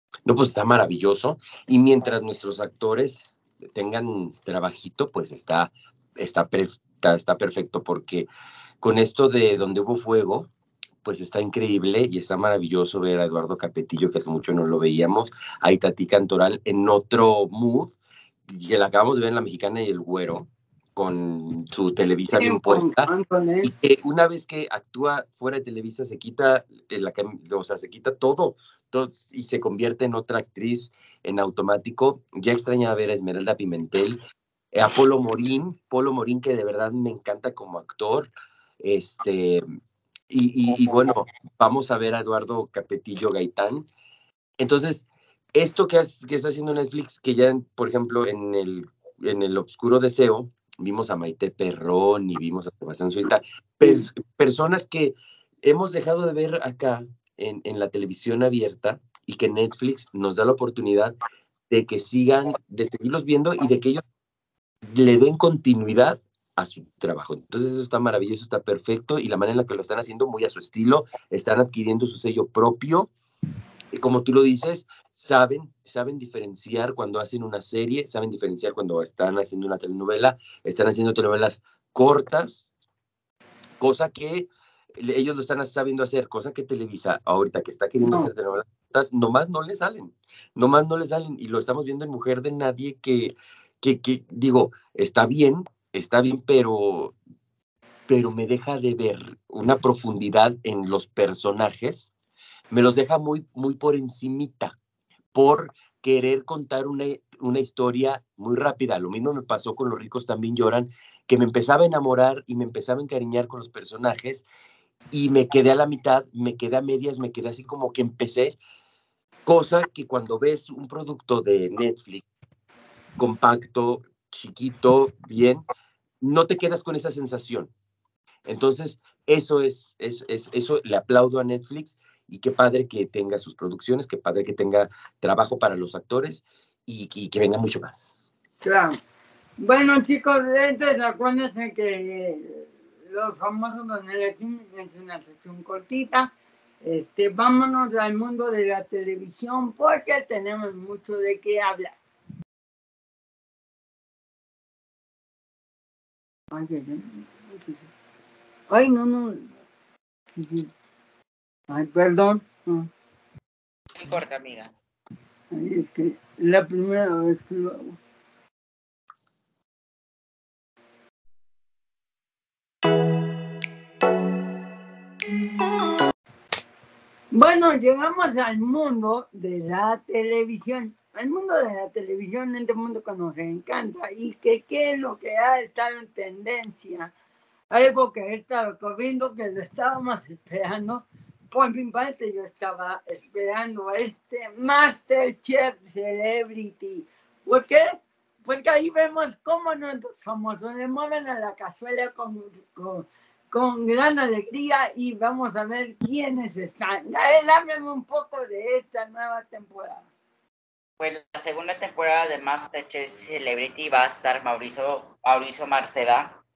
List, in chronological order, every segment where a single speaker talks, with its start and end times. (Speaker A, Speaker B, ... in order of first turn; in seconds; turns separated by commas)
Speaker A: 0.2-8.3, Speaker A: 8.8-10.5, Speaker A: 11.0-17.9, Speaker A: 18.5-23.1, Speaker B: 22.3-23.7, Speaker A: 23.6-34.2, Speaker A: 34.7-38.3, Speaker A: 38.8-39.6, Speaker A: 40.3-43.9, Speaker A: 44.6-61.1, Speaker A: 61.7-64.0, Speaker A: 64.8-73.1, Speaker A: 73.9-82.7, Speaker A: 83.8-97.1, Speaker B: 88.0-88.3, Speaker A: 98.1-102.1, Speaker A: 102.7-104.7, Speaker A: 105.3-114.4, Speaker A: 115.1-118.6, Speaker A: 119.5-122.2, Speaker A: 123.2-125.6, Speaker A: 126.2-127.7, Speaker A: 128.4-138.2, Speaker B: 138.6-139.0, Speaker B: 139.6-152.0, Speaker B: 156.5-157.9, Speaker B: 158.7-159.5, Speaker B: 160.3-160.7, Speaker B: 161.7-162.9, Speaker C: 163.9-164.7, Speaker B: 165.5-168.0, Speaker B: 177.3-187.1, Speaker B: 187.7-197.9, Speaker B: 198.4-210.1, Speaker C: 211.0-216.4